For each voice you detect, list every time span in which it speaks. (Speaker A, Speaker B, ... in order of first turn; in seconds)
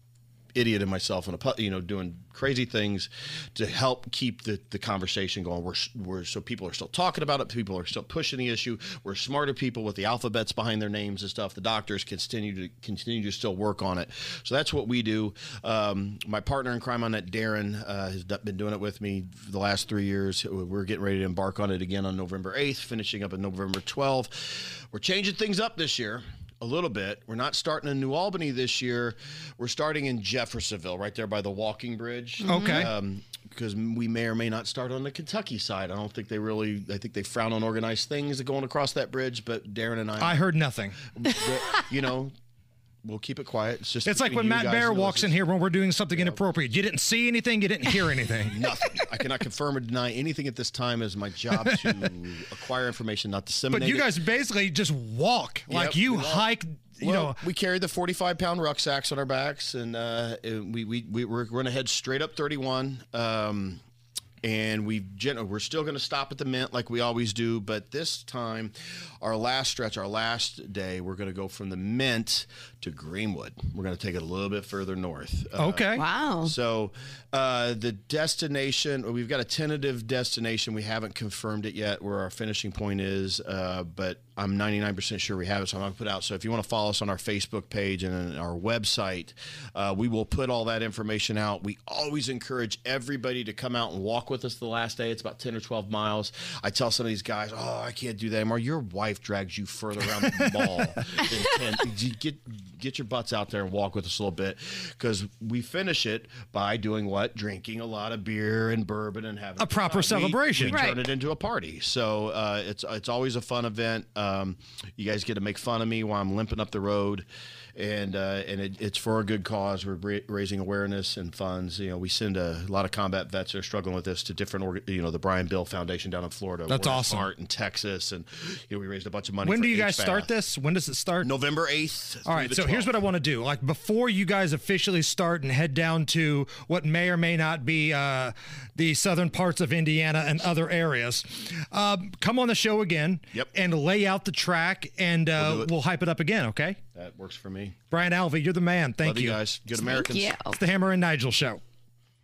Speaker A: 0.5-40.4, 41.0-42.3, 43.0-45.4, 46.1-46.4, 48.5-54.1, 55.7-56.5, 57.0-63.8, 64.4-130.3, 131.2-132.9, 145.3-145.7, 146.9-147.8, 149.0-150.3
Speaker B: 32.4-32.9, 76.0-76.5, 110.7-111.0, 149.8-150.6
Speaker C: 32.5-32.9, 40.2-41.0, 44.0-48.6, 53.7-57.4, 75.5-76.0, 100.3-100.6, 109.6-110.8, 126.7-127.2, 129.4-131.3, 132.2-146.8, 147.9-149.4, 150.5-151.6